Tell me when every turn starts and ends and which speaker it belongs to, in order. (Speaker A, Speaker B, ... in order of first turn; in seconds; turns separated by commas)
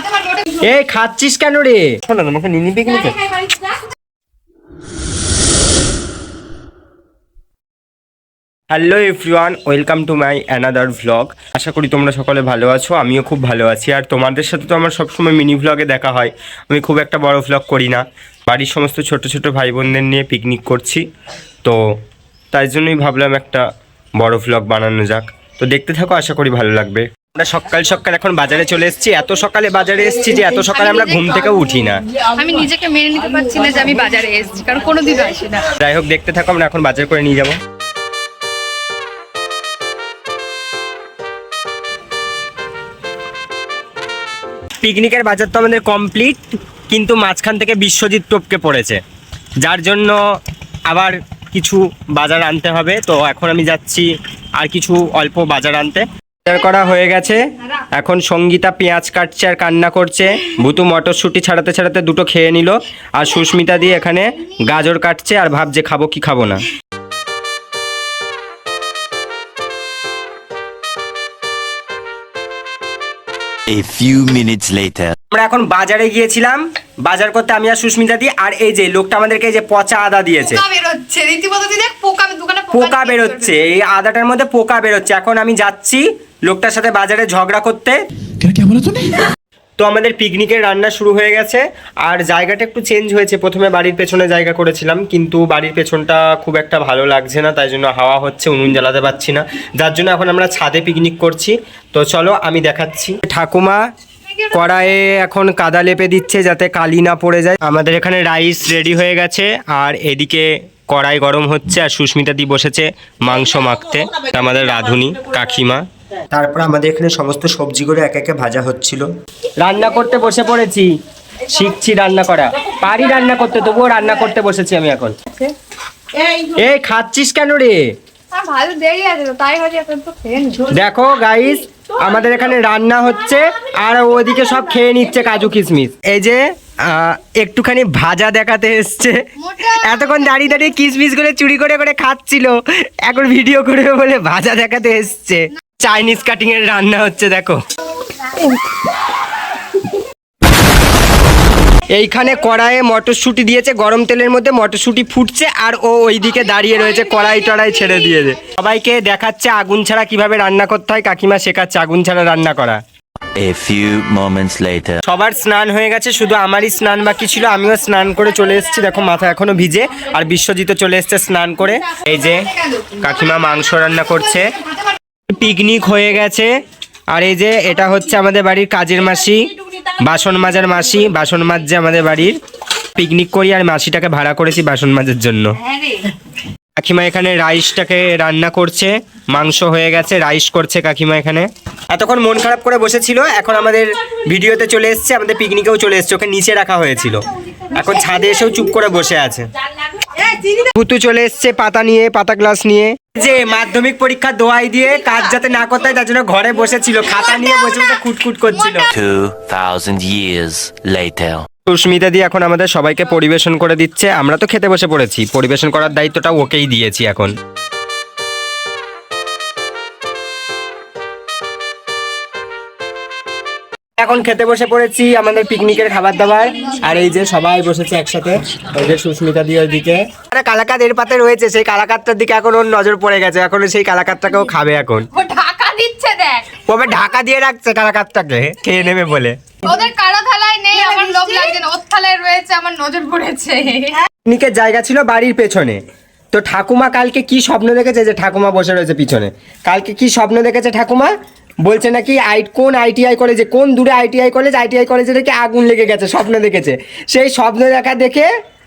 Speaker A: 0.5-3.5, Speaker A: 8.7-21.0, Speaker A: 22.5-23.6, Speaker A: 24.2-32.0, Speaker B: 30.7-31.6, Speaker B: 32.4-35.7, Speaker A: 35.8-37.6, Speaker A: 44.8-49.0, Speaker A: 49.6-50.2, Speaker A: 50.9-66.6, Speaker C: 73.7-75.1, Speaker A: 75.3-80.6, Speaker B: 80.5-83.5, Speaker A: 82.7-88.0, Speaker A: 89.8-103.8, Speaker A: 104.5-119.1, Speaker A: 119.6-120.9, Speaker A: 121.5-125.2, Speaker A: 126.3-127.8, Speaker B: 128.3-130.7, Speaker A: 130.7-147.6, Speaker B: 139.4-140.0, Speaker A: 151.9-162.8, Speaker C: 163.3-165.0, Speaker A: 165.0-174.5, Speaker A: 175.3-176.5, Speaker A: 177.1-179.5, Speaker A: 180.0-182.4, Speaker A: 182.9-186.0, Speaker A: 186.8-199.4, Speaker A: 200.5-208.9, Speaker C: 208.9-211.4, Speaker A: 211.7-217.3, Speaker A: 224.0-235.1, Speaker B: 235.1-236.4, Speaker A: 236.7-239.4, Speaker B: 239.6-244.1, Speaker A: 244.2-245.8, Speaker A: 246.3-251.1, Speaker A: 251.6-258.3